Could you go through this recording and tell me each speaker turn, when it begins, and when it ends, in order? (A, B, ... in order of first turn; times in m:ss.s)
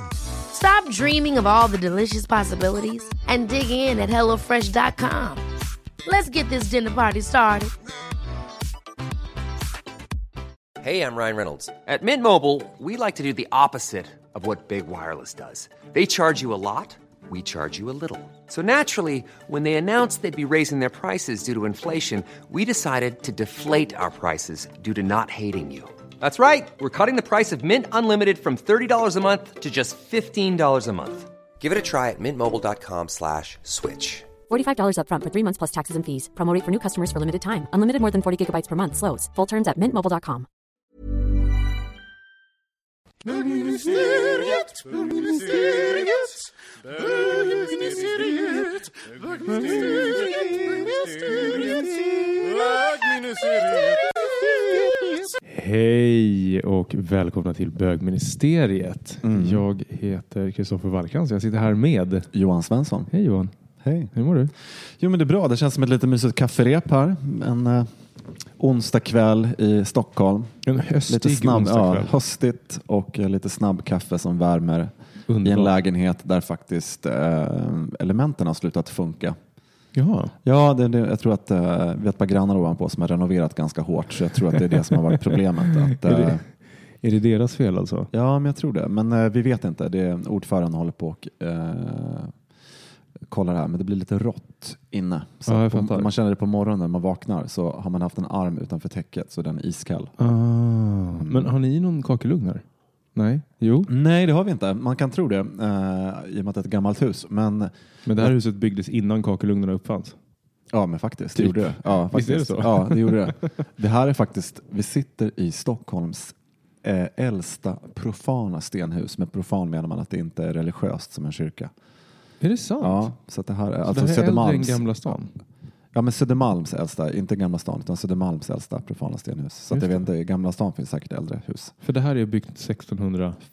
0:00.5-0:05.4 A
0:06.0-0:07.7 A
0:10.8-0:34.3 B
0:34.5-0:40.5 C
0:55.4-1:02.3 D
0:59.2-0:59.6 E
1:02.3-1:03.1 E
1:03.1-1:03.5 D
1:03.8-1:04.1 E
1:04.1-1:04.5 D
1:04.7-1:07.9 E
1:08.6-1:10.5 E
1:10.6-1:12.1 D
1:11.1-1:19.4 E
1:15.3-1:15.8 D
1:19.9-1:20.3 D
1:20.4-1:26.4 E
1:24.6-1:26.4 D
1:27.0-1:28.1 D
1:28.1-1:32.3 E
1:33.3-1:40.2 E
1:35.5-1:36.1 D
1:40.2-1:42.6 D
1:41.2-1:41.5 E
1:43.1-1:43.9 D
1:43.9-1:48.3 E
1:48.0-1:50.2 D
1:50.7-2:01.7 E
1:51.4-1:53.4 D
2:02.4-2:03.1 D
2:02.8-2:04.8 E
2:03.8-2:05.3 D
2:05.9-2:11.7 E
2:09.7-2:10.1 D
2:11.8-2:13.4 D